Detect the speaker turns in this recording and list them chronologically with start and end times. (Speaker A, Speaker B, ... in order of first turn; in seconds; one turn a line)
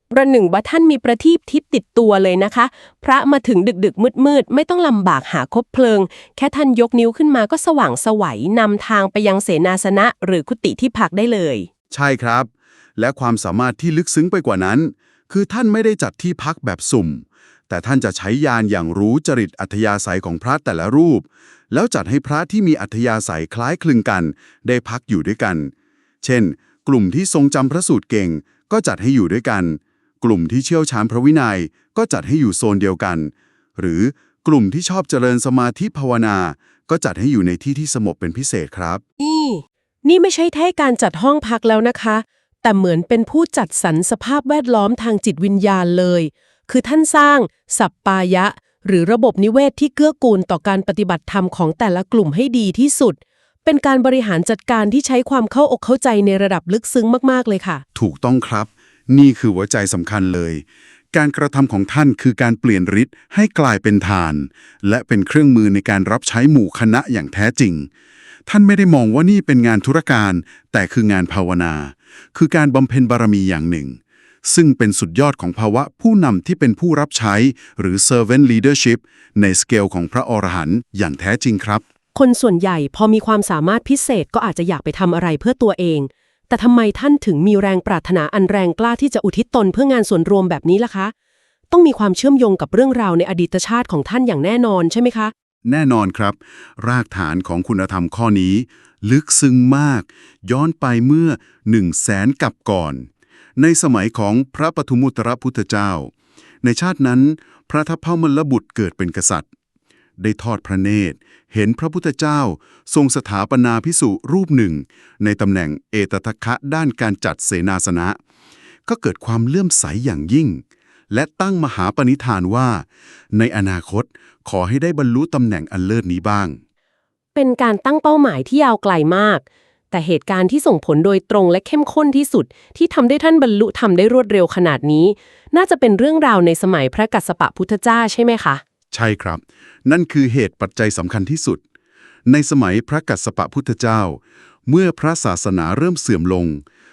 Speaker A: 0.1-11.7
Speaker B: 11.9-39.0
Speaker A: 39.2-57.8
Speaker B: 58.0-67.9
Speaker B: 68.5-81.8
Speaker A: 82.2-91.1
Speaker A: 91.7-95.3
Speaker B: 95.7-106.1
Speaker B: 106.6-109.5
Speaker B: 110.2-118.2
Speaker B: 118.9-126.6
Speaker A: 127.3-138.6
Speaker B: 138.9-141.6
Speaker B: 142.3-146.6